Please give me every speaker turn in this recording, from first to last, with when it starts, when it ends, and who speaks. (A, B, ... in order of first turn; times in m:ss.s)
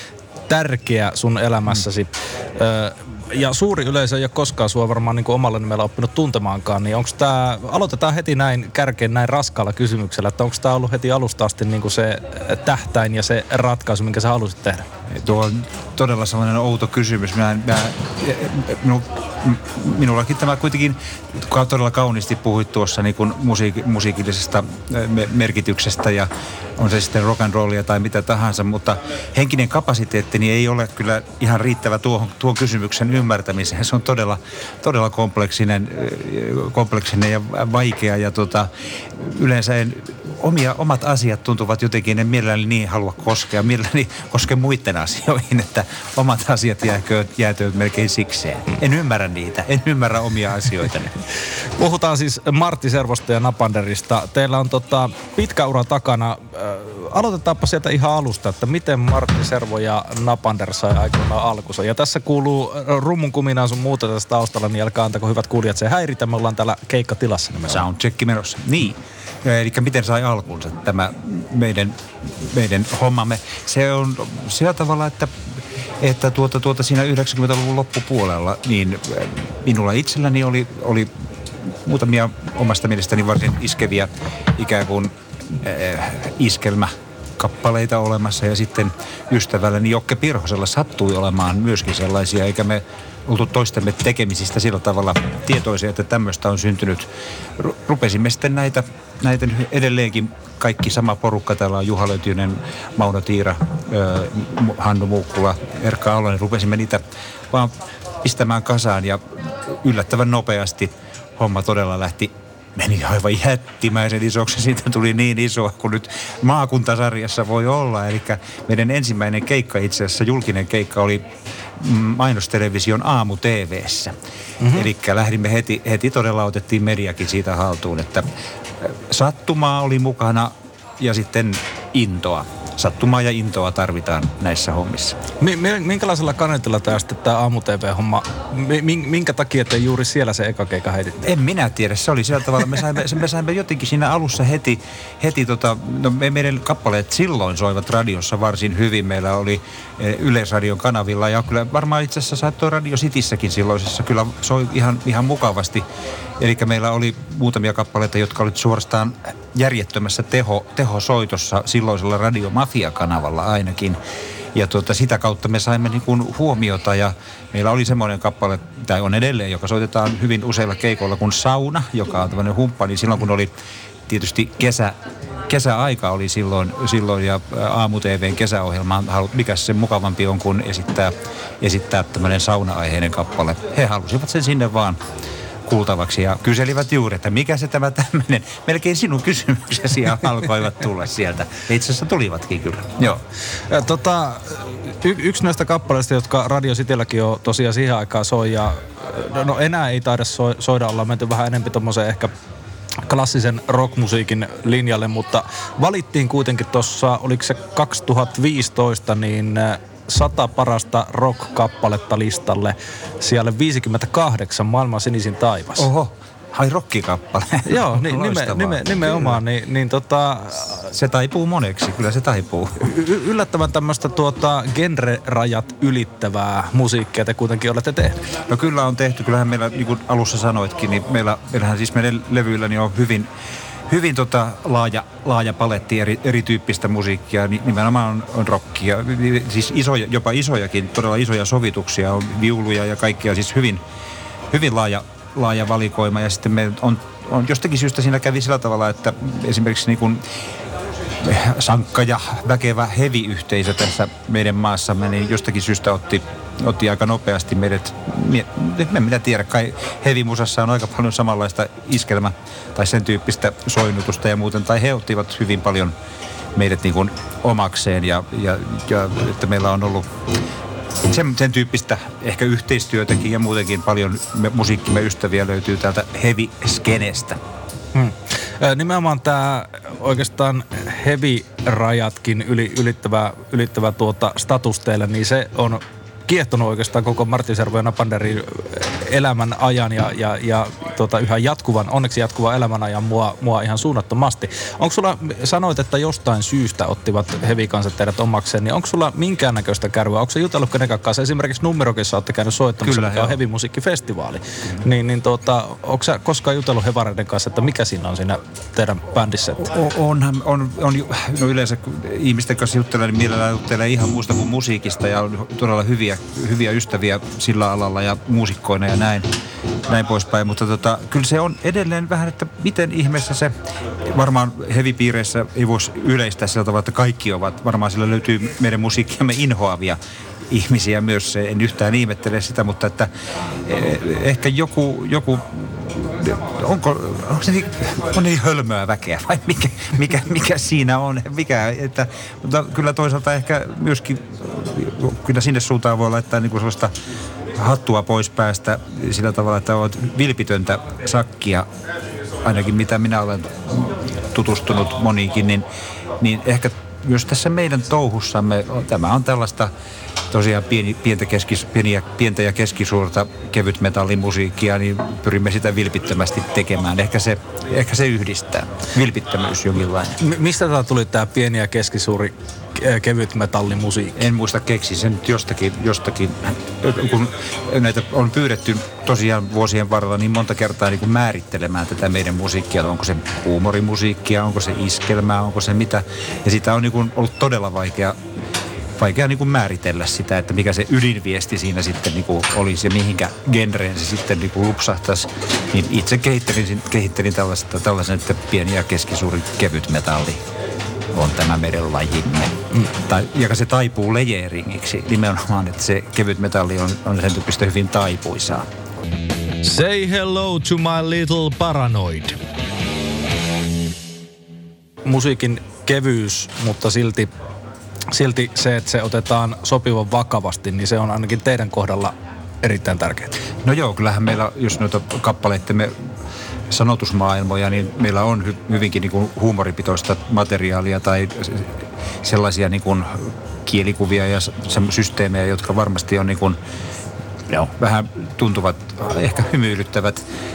0:00.5-0:14.8 A
0:15.1-0:51.2 B
0:51.8-1:07.9 A
1:07.7-1:15.4 B
1:16.0-1:21.1 B
1:21.6-2:15.2 B
2:04.6-2:04.9 A
2:15.4-2:21.3 A
2:21.2-2:35.8 B
2:36.4-2:44.0 B
2:44.5-2:53.5 B
2:54.1-2:55.0 B
2:55.5-3:05.0 B
3:05.7-3:13.2 B
3:13.7-3:22.3 A
3:23.0-3:35.9 A
3:35.8-3:39.4 B
3:37.6-3:40.9 A
3:40.9-3:42.9 B
3:42.8-3:48.2 A
3:48.5-3:53.3 B
3:53.9-4:03.8 B
4:04.5-4:10.2 B
4:11.2-4:25.9 B
4:26.5-4:30.1 B
4:31.0-4:37.4 B
4:37.9-5:09.7 A
5:02.8-5:03.4 B
5:09.6-5:19.3 B
5:19.8-5:30.0 B
5:30.5-5:33.1 B
5:33.6-5:46.9 B
5:47.5-5:51.7 B
5:52.4-5:55.7 B
5:56.2-5:59.7 B
6:00.3-6:10.2 B
6:10.2-6:14.3 A
6:14.2-6:28.2 B
6:29.0-6:40.4 B
6:41.1-6:48.6 B
6:49.6-6:52.4 A
6:55.0-6:57.3 A
6:58.1-7:03.4 A
7:03.6-7:05.9 B
7:06.7-7:16.6 B
7:17.5-7:20.2 B